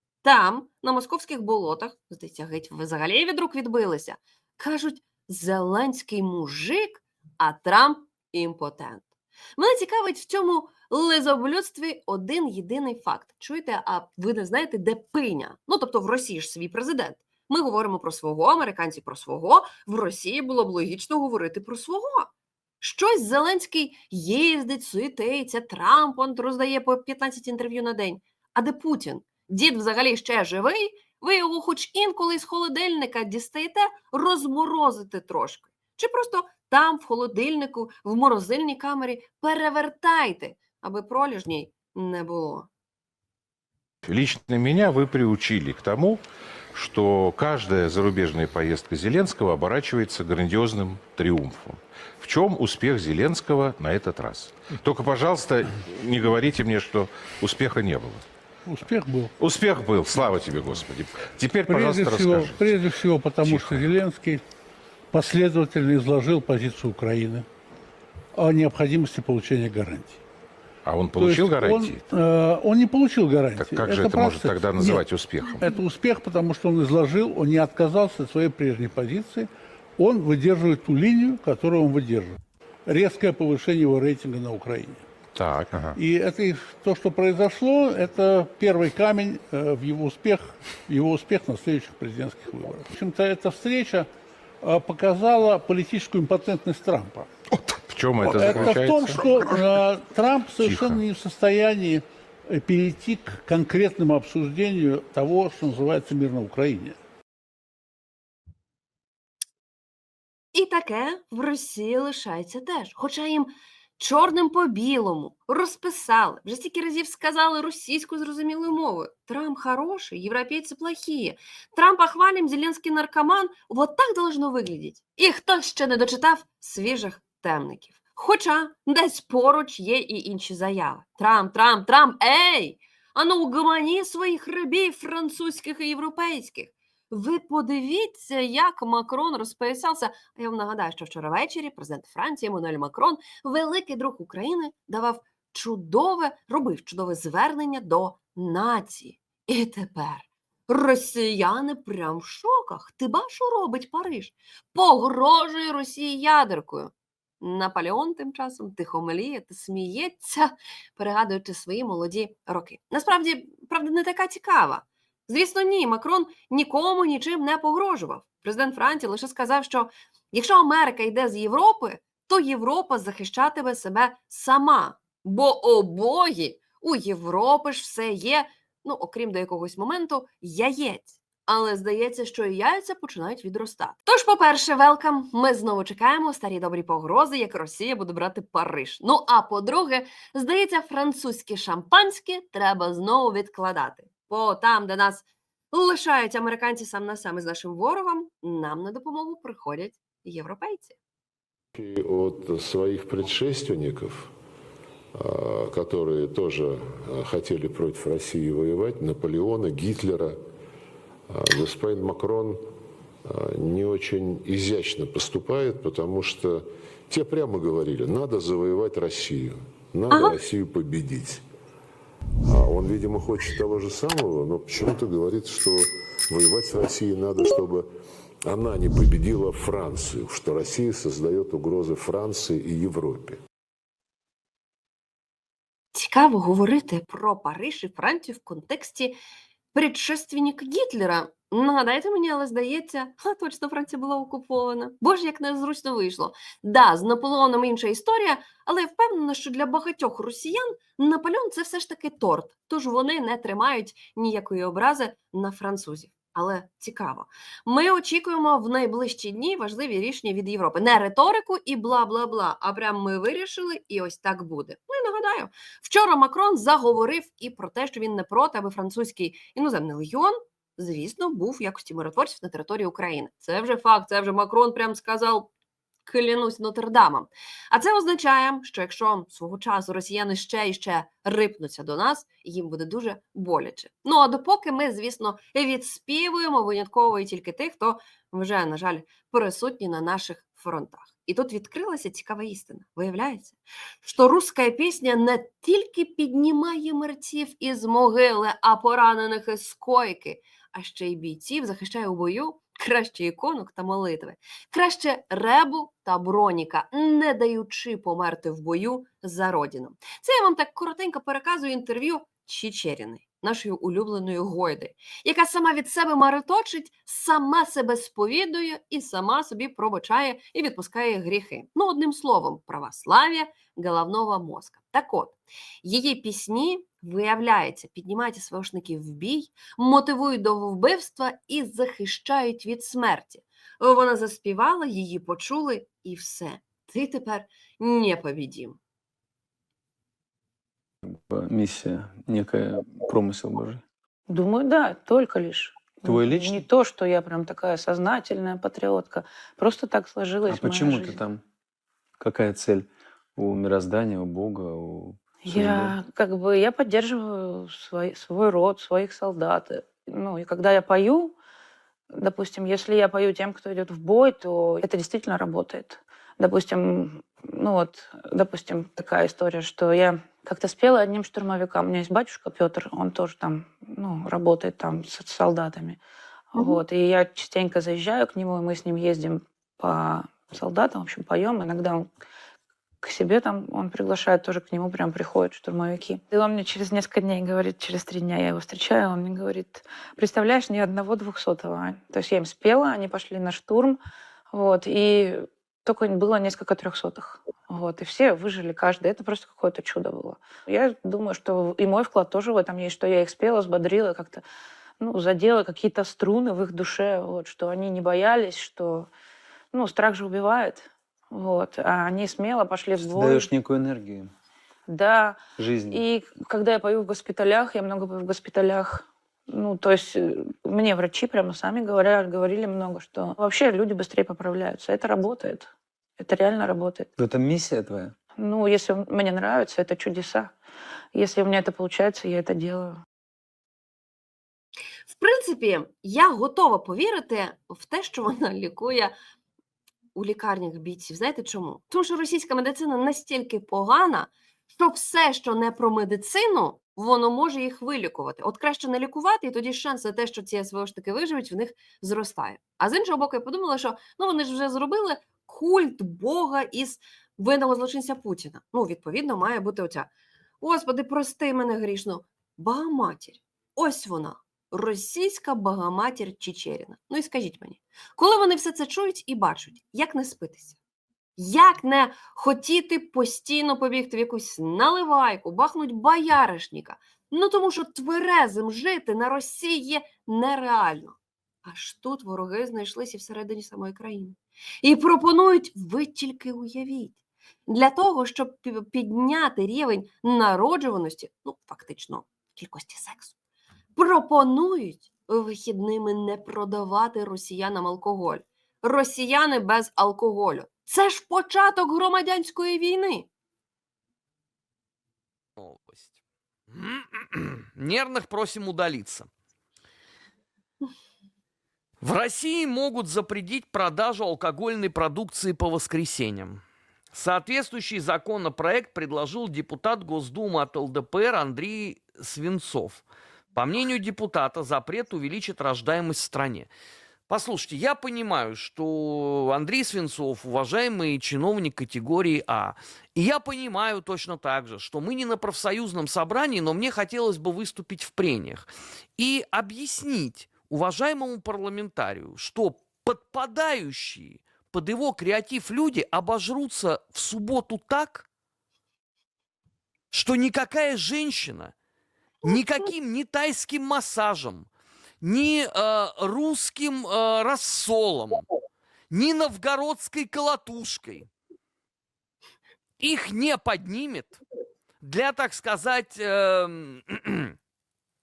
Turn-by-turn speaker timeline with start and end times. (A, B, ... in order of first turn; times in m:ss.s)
0:00.2-0:22.3 A
0:22.8-0:42.7 A
0:44.0-0:58.2 B
0:58.7-0:59.3 C
0:59.4-1:02.8 B
1:01.7-1:04.4 C
1:03.4-1:04.0 B
1:05.1-1:07.4 C
1:08.3-1:10.2 C
1:10.8-1:12.0 B
1:11.2-1:15.1 C
1:13.6-1:15.7 B
1:15.6-1:25.0 C
1:25.3-1:26.0 B
1:25.9-1:34.1 C
1:34.6-1:37.3 C
1:37.6-1:39.6 B
1:38.2-1:47.0 C
1:40.6-1:41.0 B
1:50.5-3:20.9 A
3:21.7-3:24.3 D
3:25.1-3:30.4 D
3:31.3-3:32.6 D
3:33.2-3:41.4 D
3:40.1-3:40.4 A
3:42.4-3:47.9 D
3:48.4-3:53.4 D
3:55.9-3:59.2 A
3:59.7-4:35.5 A
4:36.0-5:38.8 A
5:41.0-5:43.8 E
5:44.3-5:51.2 F
5:46.0-5:46.6 E
5:50.5-5:51.4 E
5:52.2-5:55.9 E
5:55.4-6:01.4 F
6:02.1-6:16.0 F
6:16.5-6:22.1 F
6:23.0-6:34.0 F
6:34.5-6:44.4 F
6:45.0-6:49.1 F
6:49.7-6:53.5 F
6:53.0-6:54.3 E
6:54.9-7:07.1 F
6:55.6-6:56.0 E
7:07.2-7:08.1 E
7:08.4-7:10.5 F
7:11.1-7:13.0 F
7:15.1-7:19.1 A
7:20.1-7:40.1 A
7:40.6-7:50.8 A
7:51.4-8:13.3 A
8:13.9-8:23.3 A
8:25.6-8:26.1 G
8:26.7-8:29.3 G
8:32.0-8:46.7 G
8:47.3-9:08.3 G
9:10.1-9:11.7 G
9:12.4-9:14.7 G
9:15.2-9:18.4 G
9:19.1-9:21.3 G
9:23.0-9:24.4 G
9:25.0-9:27.6 G